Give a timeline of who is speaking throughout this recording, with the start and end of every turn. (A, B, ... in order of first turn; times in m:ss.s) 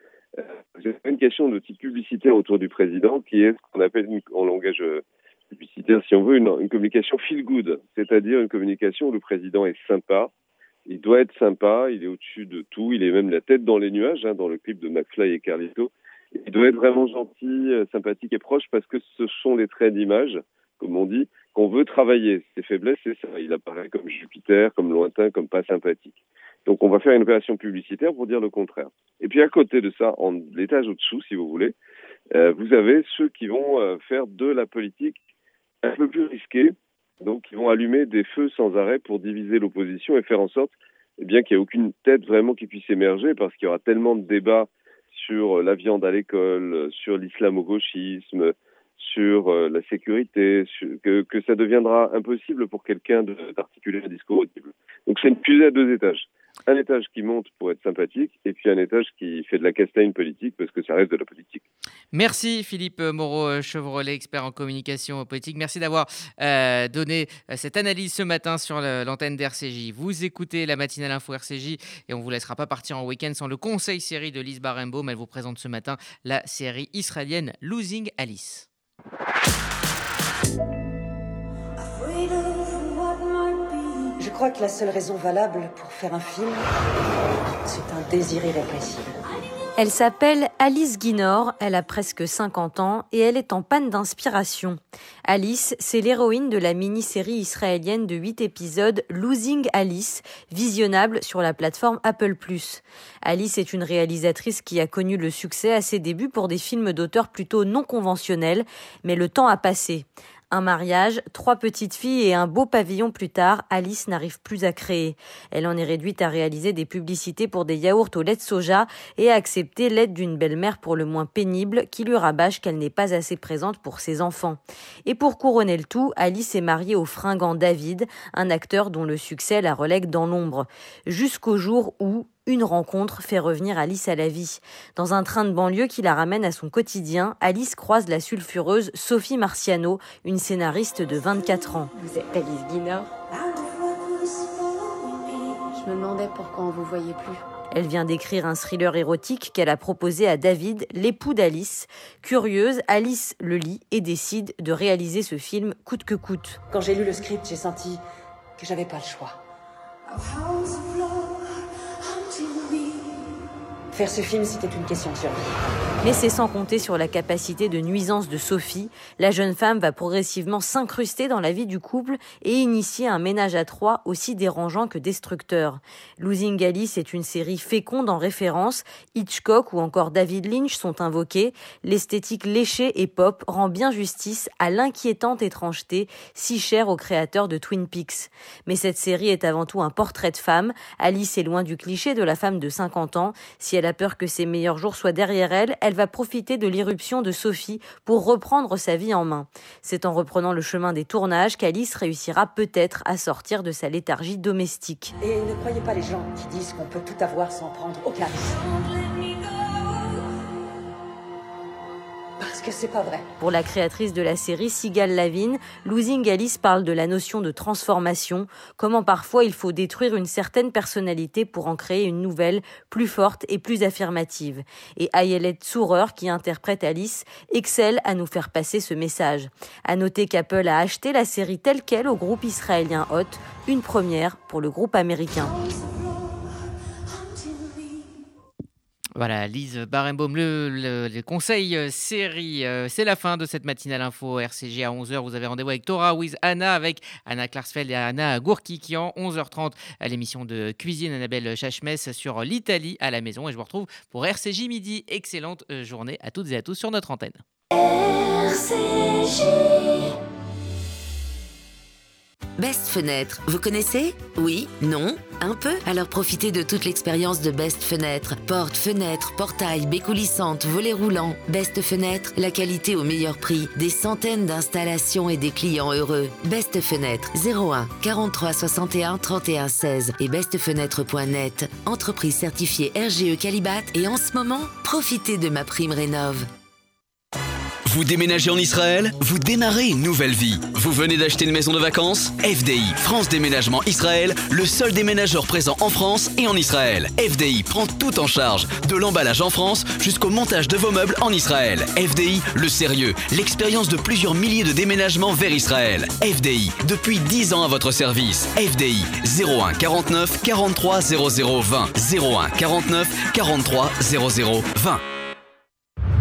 0:00.4-0:10.3 A
0:10.9-0:31.7 A
0:32.3-0:35.2 A
0:35.8-1:01.6 A
1:02.1-1:18.6 B
1:22.0-1:23.1 C
1:24.2-1:26.6 C
1:27.6-1:29.1 C
1:29.8-2:21.9 D
2:22.0-2:23.4 E
2:25.3-2:27.4 E
2:27.7-2:36.6 D
2:36.7-2:38.0 C
2:38.6-2:39.4 C
2:40.6-2:40.8 C
2:42.3-2:43.0 C
2:43.9-2:45.5 C
2:46.0-3:25.1 D
3:25.2-3:28.8 C
3:32.4-3:33.3 C
3:33.4-3:55.6 D
3:59.2-4:17.4 B
4:22.6-4:46.4 F
4:47.8-5:15.0 G